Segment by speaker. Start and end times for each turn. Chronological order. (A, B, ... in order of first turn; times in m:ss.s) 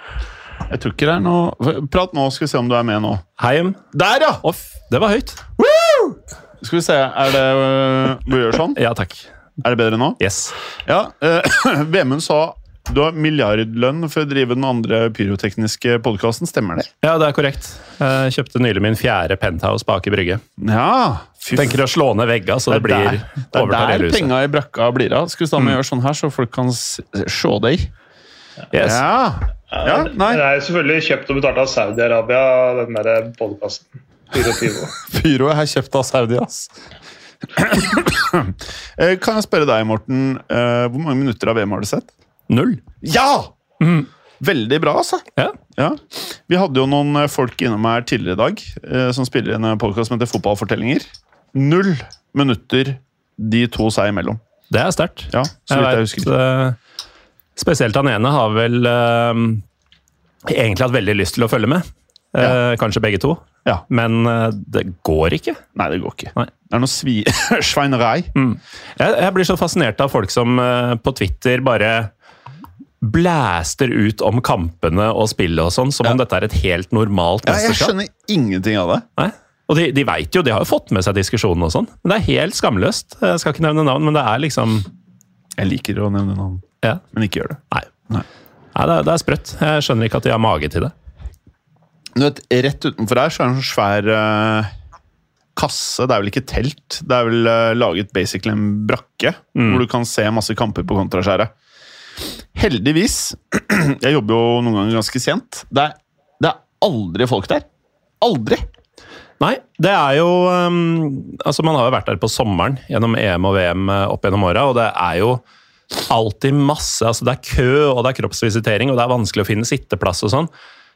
0:00.7-0:03.2 A
0:03.4-0:03.8 B
0:03.9-0:04.4 A
0:04.4-0:05.4 B
0:05.6-0:08.8 A
0:08.8-0:09.3 B
0:09.6-0:10.2 A
0:10.2-0:10.5 B
0:10.8-0:16.9 A
0:17.0-0:20.4 B
0:20.6-0:21.8 A
0:21.5-0:24.3 B
0:22.7-0:27.9 A
0:28.7-0:29.0 B
0:28.8-0:30.4 A
0:29.7-0:35.0 C
0:35.0-0:36.7 A
0:37.6-0:42.1 A
0:42.5-0:42.8 B
0:43.0-0:43.5 A
0:43.8-0:44.1 B
0:44.4-0:45.2 A
0:45.7-0:54.4 A
0:54.7-0:56.8 B
0:55.3-0:56.3 A
0:57.6-0:59.6 B
1:00.5-1:05.6 B
1:05.7-1:08.3 A
1:08.3-1:12.1 B
1:13.0-1:17.9 B
1:17.4-1:19.0 A
1:19.2-1:24.9 B
1:25.6-1:28.2 A
1:28.7-1:30.9 B
1:32.1-1:34.7 A
1:35.5-1:41.5 A
1:39.5-1:39.8 B
1:42.5-1:47.6 A
1:48.2-1:48.6 A
1:49.4-1:55.4 B
1:56.0-2:00.5 B